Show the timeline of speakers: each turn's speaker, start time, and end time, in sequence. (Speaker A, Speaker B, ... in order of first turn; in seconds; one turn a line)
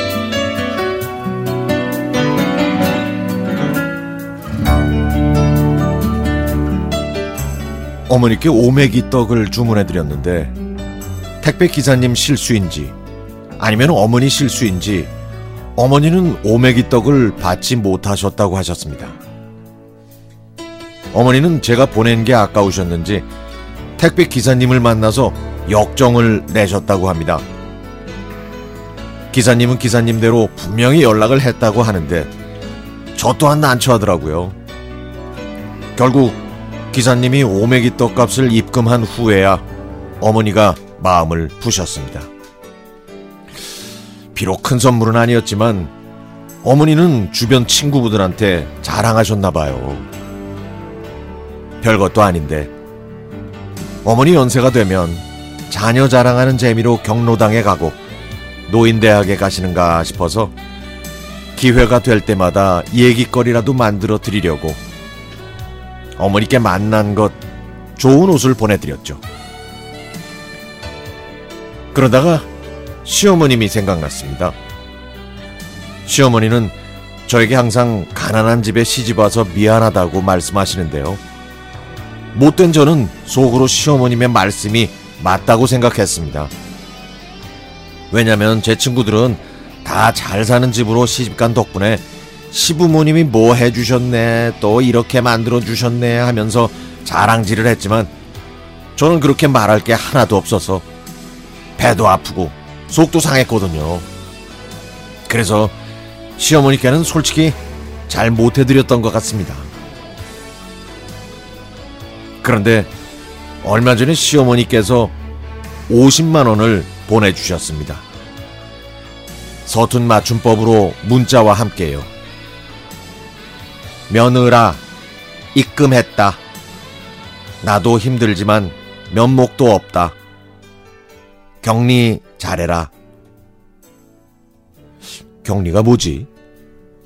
Speaker A: 8.1-10.5
Speaker A: 11.4-12.9
Speaker A: 13.6-15.1
Speaker A: 15.8-19.2
Speaker A: 21.1-23.3
Speaker A: 24.0-27.4
Speaker A: 29.3-32.3
Speaker A: 33.1-34.6
Speaker A: 36.0-36.4
Speaker A: 36.9-39.6
Speaker A: 40.2-42.3
Speaker A: 44.3-45.9
Speaker A: 46.6-50.1
Speaker A: 51.8-52.7
Speaker A: 54.0-58.0
Speaker A: 58.7-60.5
Speaker A: 61.6-64.8
Speaker A: 66.2-67.4
Speaker A: 68.0-69.2
Speaker A: 71.9-72.5
Speaker A: 73.0-74.5
Speaker A: 76.1-76.8
Speaker A: 77.3-81.2
Speaker A: 82.3-86.5
Speaker A: 88.1-98.1
Speaker A: 99.0-100.9
Speaker A: 101.8-104.1
Speaker A: 105.3-105.7
Speaker A: 106.4-109.7
Speaker A: 112.4-112.9
Speaker A: 113.6-115.1
Speaker A: 115.9-118.0
Speaker A: 119.7-122.1
Speaker A: 124.1-124.8
Speaker A: 125.5-126.4
Speaker A: 127.6-130.2
Speaker A: 131.6-132.9
Speaker A: 135.4-136.3